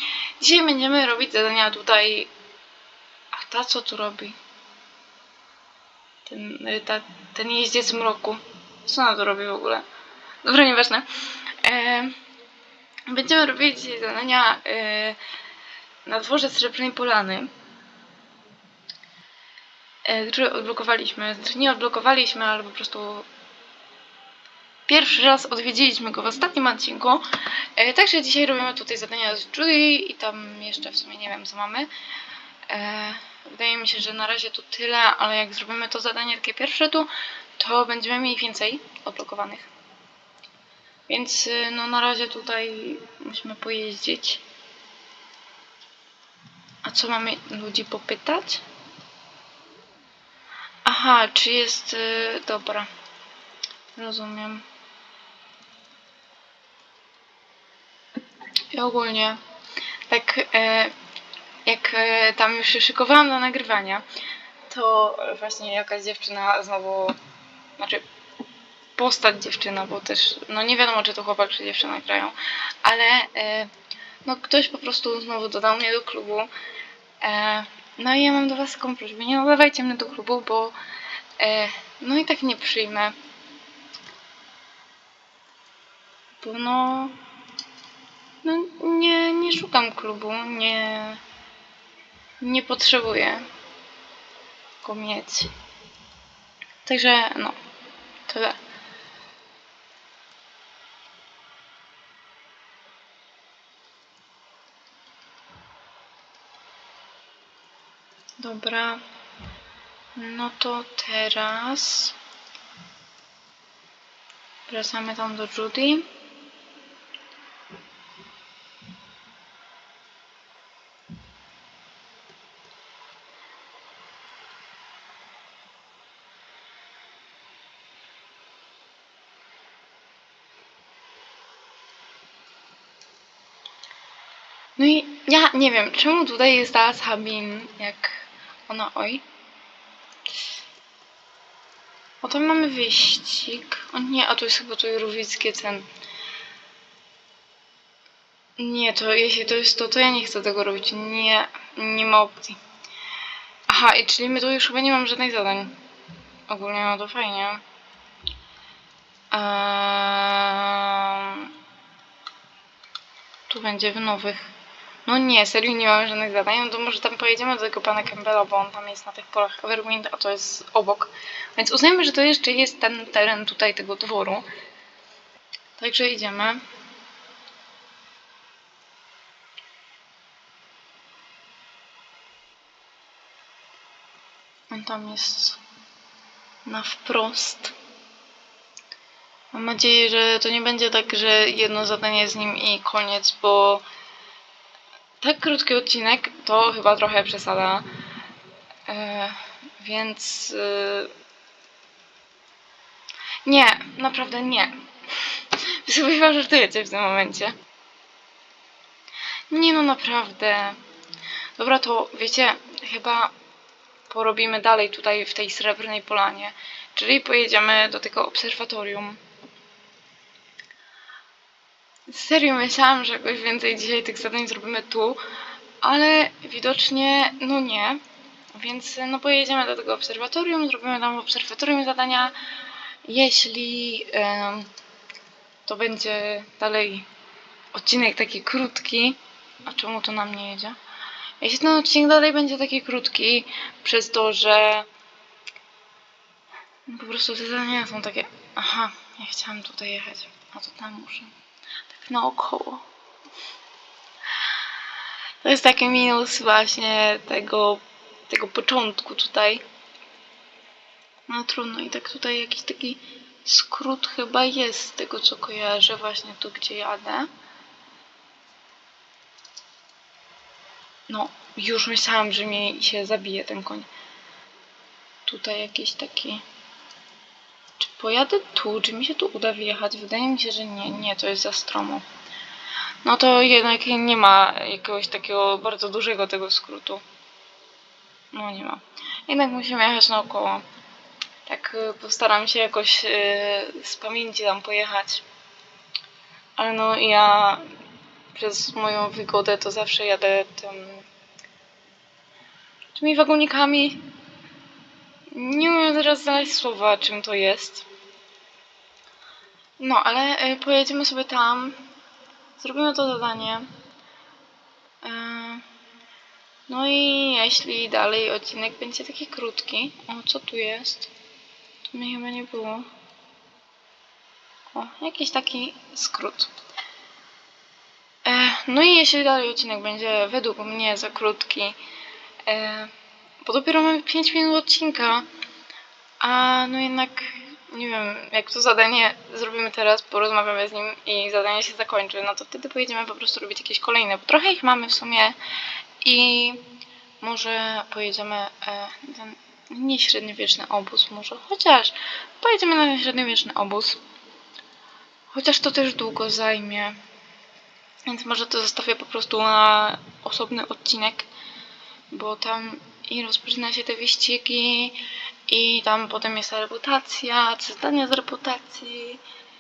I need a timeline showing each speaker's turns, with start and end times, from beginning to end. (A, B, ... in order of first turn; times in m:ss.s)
0:00.4-0:02.3 A
0:03.3-0:04.4 A
0:06.3-0:09.8 A
0:10.4-0:11.1 A
0:11.6-0:12.2 A
0:13.1-0:15.2 A
0:16.0-0:17.5 A
0:20.0-0:23.3 A
0:24.9-0:31.9 A
0:32.7-0:39.7 A
0:41.1-0:44.4 A
0:46.8-0:48.6 A
0:50.8-0:52.9 A
0:54.0-0:54.7 A
0:58.7-0:59.4 A
1:00.1-1:00.9 A
1:01.6-1:04.0 A
1:04.7-1:07.2 A
1:07.8-1:08.0 A
1:09.0-1:13.7 A
1:14.2-1:16.5 A
1:17.2-1:20.8 A
1:21.4-1:23.1 A
1:26.4-1:27.2 A
1:28.4-1:31.2 A
1:32.4-1:33.5 A
1:34.8-1:35.5 A
1:36.8-1:37.6 A
1:38.3-1:38.6 A
1:48.4-1:49.0 A
1:50.2-1:52.2 A
1:54.7-1:56.1 A
2:14.8-2:19.2 A
2:22.2-2:25.9 A
2:28.6-2:32.6 A
2:33.7-2:35.8 A
2:36.5-2:37.6 A
2:39.3-2:41.5 A
2:43.5-2:44.5 A
2:45.1-2:54.5 A
2:55.8-2:56.6 A
3:04.7-3:05.6 A
3:06.7-3:07.8 A
3:09.5-3:13.8 A
3:15.2-3:17.9 A
3:18.9-3:21.1 A
3:23.4-3:27.6 A
3:29.5-3:30.8 A
3:31.6-3:33.3 A
3:34.1-3:39.2 A
3:42.1-3:45.2 A
3:45.8-3:48.0 A
3:48.5-3:52.4 A
3:53.0-3:54.7 A
3:55.6-3:57.1 A
3:57.7-4:00.8 A
4:01.4-4:04.9 A
4:06.9-4:11.3 A
4:11.9-4:12.9 A
4:15.4-4:19.6 A
4:21.3-4:27.3 A
4:31.1-4:33.9 A
4:35.2-4:36.4 A
4:37.8-4:42.1 A
4:43.0-4:47.0 A
4:48.3-4:50.6 A
4:51.5-4:55.2 A
4:56.6-4:57.6 A
4:58.3-5:01.1 A
5:02.9-5:04.0 A
5:05.3-5:07.9 A
5:09.8-5:11.8 A
5:12.6-5:13.7 A
5:15.0-5:15.6 A
5:16.7-5:21.1 A
5:21.9-5:22.9 A
5:24.7-5:26.5 A
5:28.2-5:31.8 A
5:32.4-5:35.2 A
5:36.2-5:45.4 A
5:46.0-5:46.6 A
5:47.2-5:54.0 A
5:55.3-5:57.0 A
5:58.1-6:01.3 A
6:02.1-6:09.2 A